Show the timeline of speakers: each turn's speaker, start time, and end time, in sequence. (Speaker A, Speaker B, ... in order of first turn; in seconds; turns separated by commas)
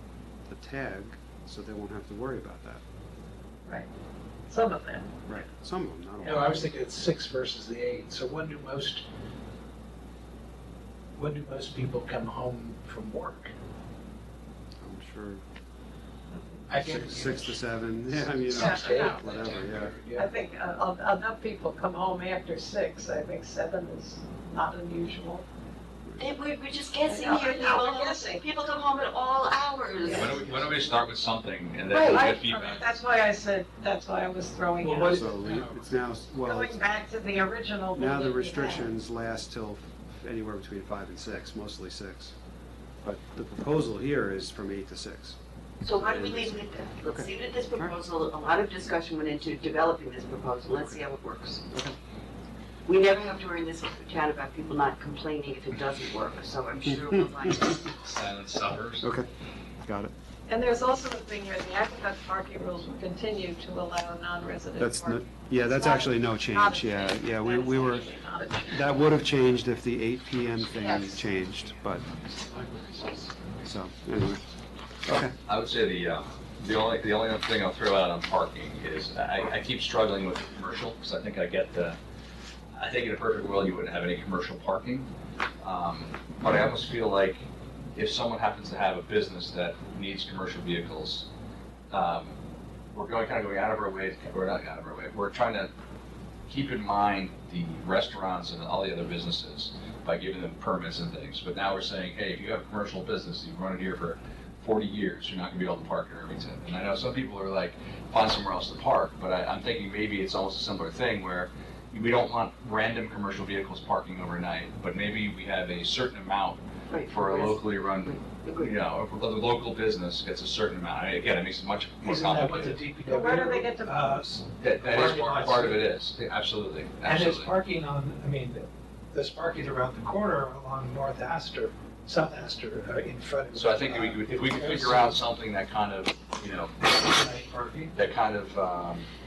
Speaker A: 0.5-2.8, Speaker B: 4.5-5.2, Speaker A: 5.3-6.7, Speaker C: 6.2-9.1, Speaker C: 11.2-13.5, Speaker A: 14.8-15.4, Speaker B: 16.3-16.7, Speaker C: 16.7-20.3, Speaker A: 16.8-19.9, Speaker B: 18.6-19.1, Speaker B: 20.1-25.4, Speaker D: 26.2-30.6, Speaker B: 27.1-28.4, Speaker B: 30.0-30.4, Speaker E: 30.1-33.0, Speaker B: 31.9-35.2, Speaker C: 34.8-35.9, Speaker A: 35.1-36.8, Speaker B: 36.4-38.9, Speaker A: 37.9-42.4, Speaker A: 43.0-47.9, Speaker D: 45.8-51.7, Speaker A: 50.8-51.0, Speaker D: 52.9-57.9, Speaker E: 58.0-59.0, Speaker A: 59.0-59.3, Speaker A: 59.8-60.1, Speaker B: 60.5-68.8, Speaker A: 64.8-68.1, Speaker A: 68.6-72.0, Speaker C: 70.8-73.5, Speaker A: 73.6-74.4, Speaker A: 75.0-75.3, Speaker E: 75.4-82.0, Speaker E: 82.7-85.1, Speaker E: 85.6-87.4, Speaker E: 87.9-91.3, Speaker E: 91.9-92.3, Speaker E: 92.9-95.7, Speaker E: 96.5-122.8, Speaker D: 116.9-118.7, Speaker C: 122.0-125.8, Speaker B: 123.0-124.2, Speaker E: 124.6-127.5, Speaker C: 127.0-135.2, Speaker E: 133.5-136.8, Speaker C: 136.8-137.9, Speaker E: 137.9-139.1